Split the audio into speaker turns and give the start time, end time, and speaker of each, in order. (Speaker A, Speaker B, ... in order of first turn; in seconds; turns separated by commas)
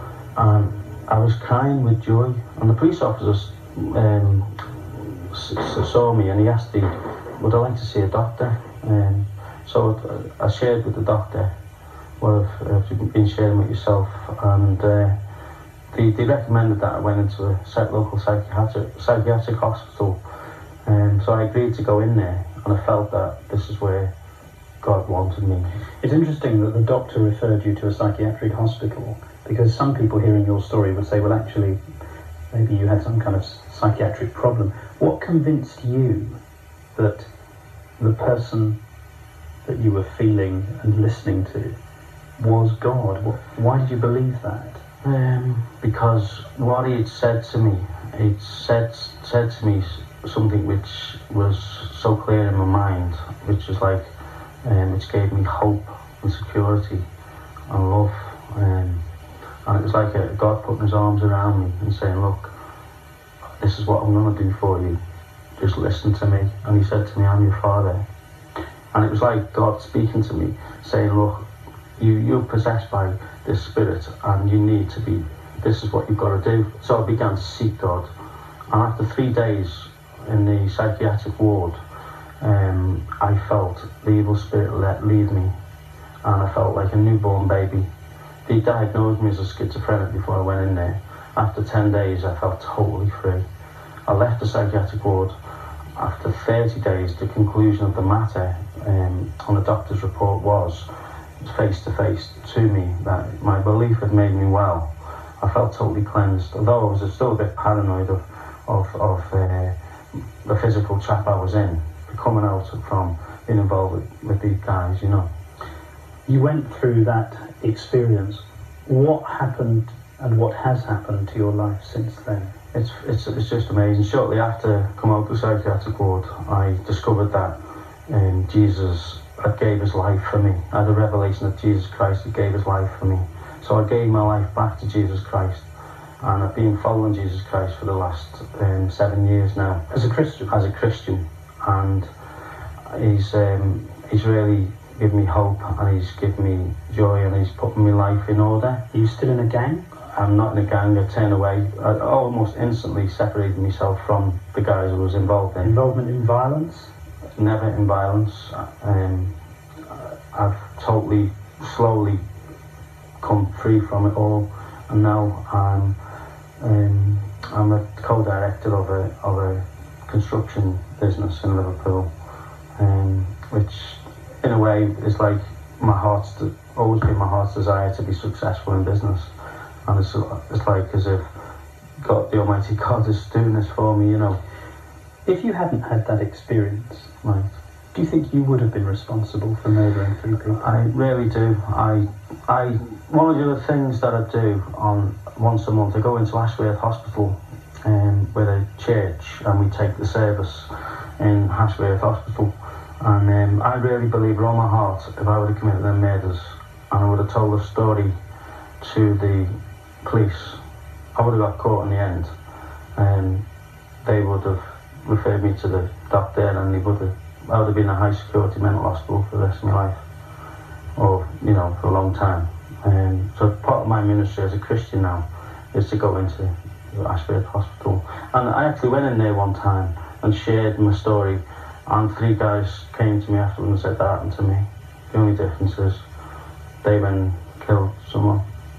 Speaker A: 0.4-11.5, Speaker A: 12.2-15.2, Speaker A: 15.9-20.2, Speaker A: 20.9-24.1, Speaker A: 24.8-25.7, Speaker B: 26.0-31.8, Speaker B: 32.5-36.4, Speaker B: 37.0-37.3, Speaker B: 38.0-38.8, Speaker B: 39.6-41.8, Speaker B: 42.4-44.8, Speaker A: 45.0-54.1, Speaker A: 54.6-57.0, Speaker A: 57.7-59.0, Speaker A: 59.6-62.5, Speaker A: 63.6-65.0, Speaker A: 65.6-68.0, Speaker A: 68.9-71.5, Speaker A: 72.0-78.1, Speaker A: 78.7-81.8, Speaker A: 82.4-85.5, Speaker A: 86.2-87.9, Speaker A: 88.5-93.5, Speaker A: 94.1-95.4, Speaker A: 96.0-100.9, Speaker A: 101.4-109.8, Speaker A: 110.5-115.3, Speaker B: 116.3-122.5, Speaker A: 122.7-127.5, Speaker A: 128.1-135.7, Speaker A: 136.2-139.8, Speaker B: 139.9-140.5, Speaker A: 140.5-142.1, Speaker A: 142.9-148.8, Speaker B: 148.9-149.9, Speaker A: 150.1-155.8, Speaker B: 155.6-156.9, Speaker A: 157.4-159.3, Speaker A: 159.9-162.2, Speaker A: 163.2-166.0, Speaker A: 166.6-172.1, Speaker A: 172.8-179.3, Speaker A: 179.9-181.3, Speaker A: 182.0-184.4, Speaker B: 185.2-187.1, Speaker A: 187.2-187.5, Speaker B: 187.9-190.6, Speaker A: 190.4-208.1, Speaker A: 208.8-210.6, Speaker A: 211.2-212.3, Speaker A: 213.0-213.4, Speaker A: 214.0-220.0, Speaker A: 221.0-236.0, Speaker A: 236.8-238.4